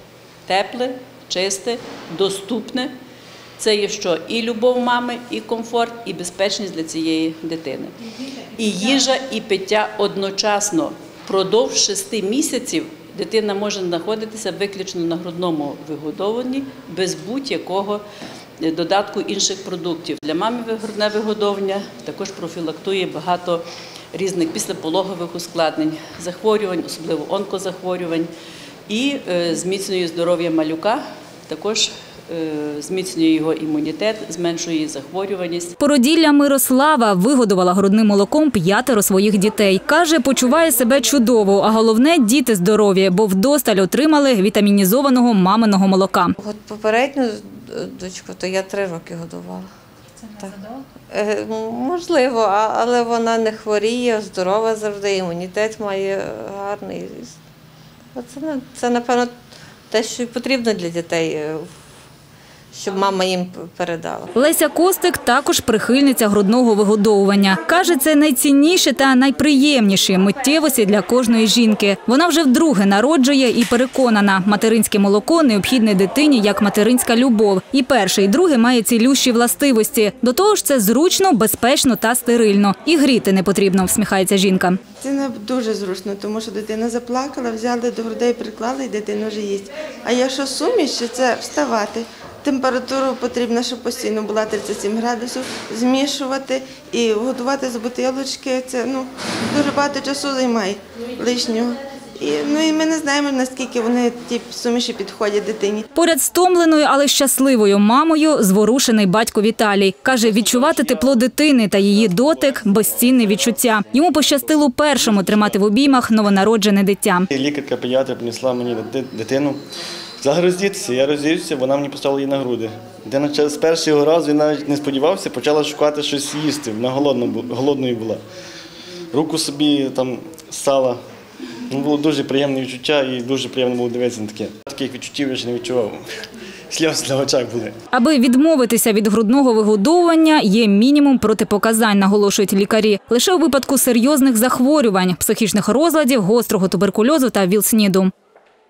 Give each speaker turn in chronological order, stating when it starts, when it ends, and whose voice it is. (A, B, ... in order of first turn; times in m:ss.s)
0:00.4-0:02.9 A
0:03.6-0:18.0 A
0:18.6-0:28.3 A
0:28.9-0:35.8 A
0:35.8-0:46.3 B
0:46.4-0:49.6 C
0:50.3-0:57.3 C
0:58.2-0:59.3 C
0:59.9-1:01.6 C
1:02.7-1:04.3 C
1:04.4-1:24.8 B
1:25.0-1:45.9 D
1:45.9-1:57.3 B
1:57.3-1:59.6 E
2:00.2-2:08.2 E
2:09.1-2:11.0 E
2:11.7-2:16.0 E
2:16.7-2:17.7 E
2:17.9-2:28.1 B